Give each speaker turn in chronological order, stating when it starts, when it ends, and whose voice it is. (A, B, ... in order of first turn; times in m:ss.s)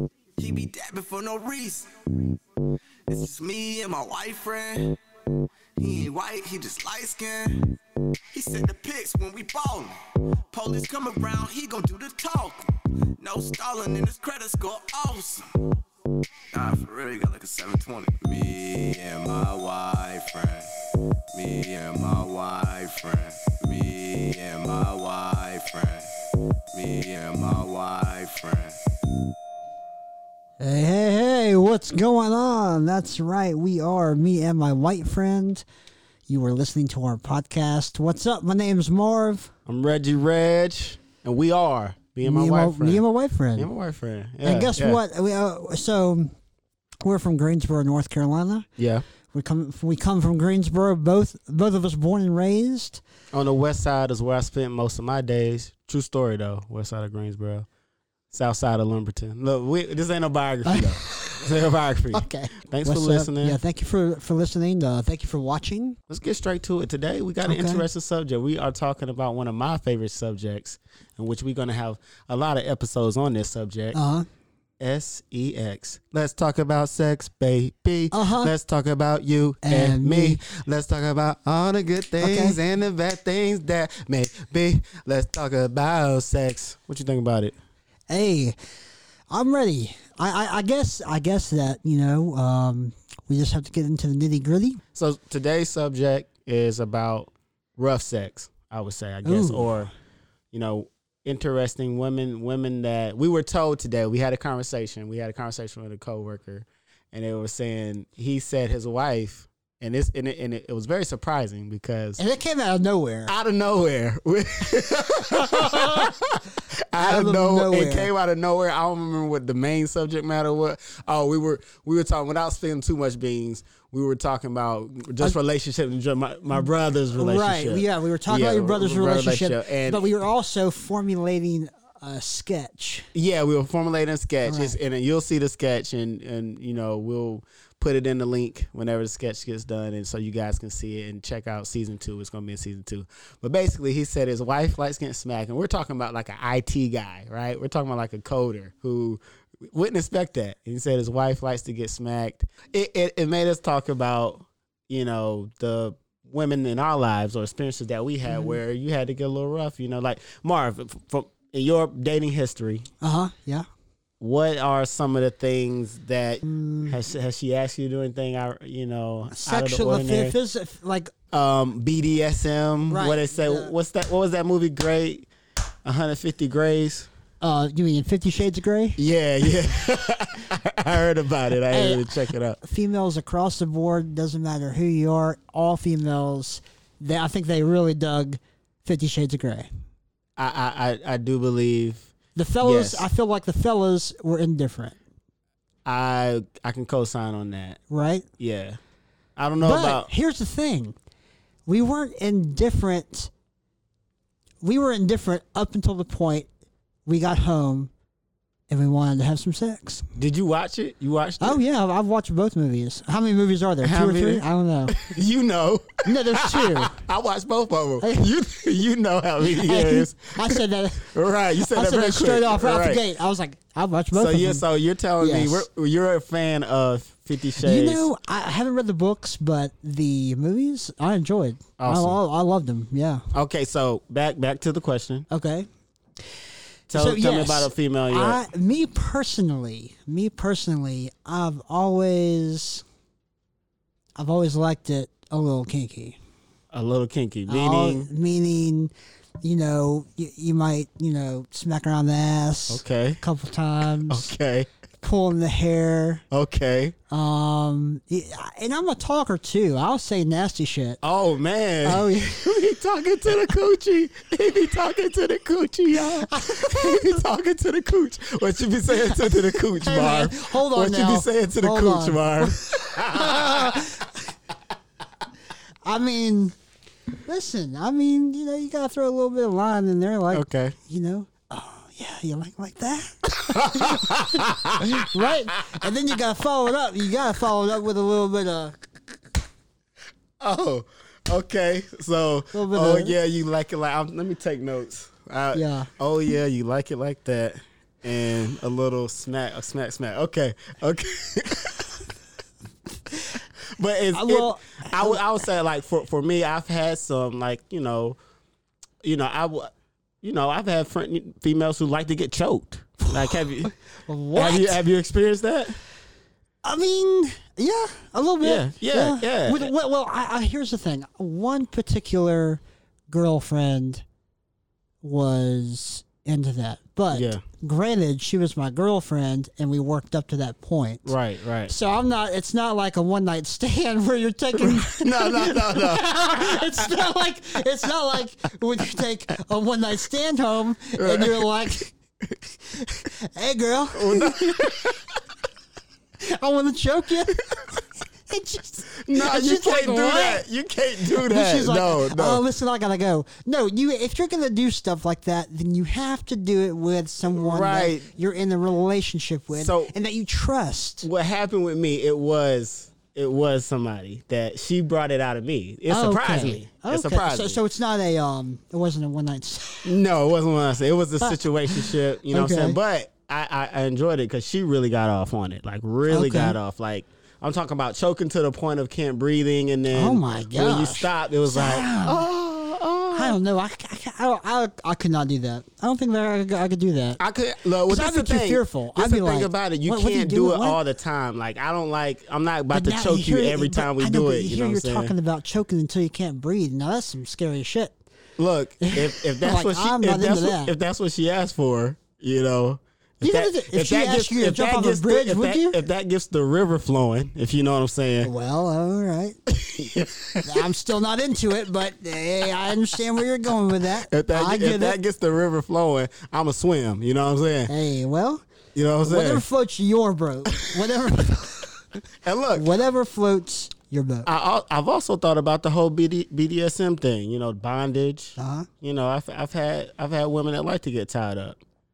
0:00.4-0:02.4 A
0:03.1-0:05.0 A
0:05.8-0:07.7 A
0:08.3-0:10.0 A
0:10.5-0:12.6 A
0:13.2-0:15.5 A
0:16.5-0:20.7 A
0:21.3-0:26.1 A
0:26.7-0:28.8 A
0:30.6-0:35.6 B
0:36.3-0:39.5 B
0:39.6-0:43.0 C
0:42.2-0:43.7 B
0:43.6-0:45.0 C
0:44.4-0:46.3 B
0:47.0-0:48.7 B
0:48.8-0:49.0 C
0:49.3-0:53.0 B
0:53.3-0:57.7 C
0:58.3-1:03.6 C
1:00.6-1:01.3 B
1:02.1-1:06.0 B
1:06.1-1:14.0 C
1:07.4-1:07.8 B
1:13.9-1:14.2 B
1:14.8-1:27.5 C
1:18.1-1:18.5 B
1:19.6-1:20.4 B
1:22.2-1:22.6 B
1:28.1-1:28.6 B
1:29.3-1:34.8 B
1:34.9-1:39.9 C
1:39.2-1:39.9 B
1:40.5-1:52.2 C
1:52.2-1:53.3 B
1:53.3-2:10.1 C
1:55.6-1:56.1 B
1:57.0-1:58.1 B
2:07.2-2:13.1 B
2:13.1-2:42.9 C
2:14.4-2:14.8 B
2:38.3-2:38.6 B
2:43.0-2:43.6 B
2:44.2-2:50.3 C
2:46.4-2:47.0 B
2:49.3-2:51.1 B
2:51.3-2:55.3 C
2:52.9-2:53.7 B
2:55.8-2:57.1 C
2:57.4-2:59.0 B
2:59.0-3:02.6 C
3:01.7-3:02.1 B
3:02.6-3:09.7 B
3:10.4-3:13.0 C
3:12.4-3:15.0 B
3:15.8-3:17.8 C
3:17.9-3:18.3 B
3:18.4-3:18.8 C
3:19.4-3:20.1 C
3:19.6-3:20.9 B
3:21.7-3:23.3 B
3:24.6-3:26.5 B
3:27.0-3:27.9 B
3:28.7-3:30.0 B
3:30.2-3:31.6 C
3:31.4-3:35.0 B
3:33.8-3:43.0 C
3:36.0-3:36.9 B
3:38.0-3:38.3 B
3:39.4-3:44.6 B
3:44.1-3:48.1 C
3:45.2-3:45.6 B
3:47.6-3:53.2 B
3:51.8-3:52.2 C
3:53.3-3:55.2 C
3:55.3-3:55.7 B
3:56.9-3:58.4 C
3:56.9-4:02.8 B
4:04.2-4:06.2 B
4:06.7-4:08.1 C
4:07.5-4:08.9 B
4:09.4-4:14.3 B
4:12.7-4:13.2 C
4:14.1-4:14.7 C
4:15.0-4:16.2 B
4:16.3-4:16.9 C
4:17.1-4:21.0 B
4:21.0-4:33.9 C
4:21.8-4:22.5 B
4:26.0-4:27.0 B
4:29.0-4:34.2 B
4:35.8-4:36.5 B
4:37.2-4:48.8 B
4:40.3-4:40.8 C
4:43.5-4:45.7 C
4:50.4-5:02.1 C
4:52.5-4:53.2 B
4:55.5-4:55.9 B
5:03.7-5:08.2 C
5:04.1-5:05.2 B
5:09.0-5:13.7 C
5:13.1-5:14.8 B
5:14.3-5:15.8 C
5:16.6-5:24.0 B
5:18.4-5:19.7 C
5:25.0-5:31.1 B
5:27.1-5:27.4 C
5:31.0-5:31.7 C
5:31.7-5:41.9 B
5:34.6-5:37.0 C
5:41.0-5:41.7 C
5:42.8-5:44.7 B
5:43.9-5:45.2 C
5:46.2-5:50.4 B
5:49.0-5:52.4 C
5:51.2-6:01.1 B
5:57.3-5:58.1 C
5:59.5-5:59.9 C
6:01.0-6:07.6 C
6:05.9-6:09.9 B
6:09.8-6:23.4 C
6:11.2-6:12.8 B
6:16.1-6:16.6 B
6:19.9-6:22.2 B
6:23.1-6:27.2 B
6:27.2-6:35.1 C
6:27.9-6:30.8 B
6:32.7-6:38.0 B
6:38.4-6:48.3 C
6:38.8-6:40.7 B
6:43.2-6:45.8 B
6:48.2-6:49.4 B
6:49.5-6:50.6 C
6:50.4-6:55.0 B
6:54.1-6:57.7 C
6:57.7-6:58.4 B
6:58.7-6:59.4 C
6:59.0-7:01.8 B
7:02.2-7:02.7 C
7:02.5-7:04.3 B
7:04.2-7:11.6 C
7:08.4-7:08.7 B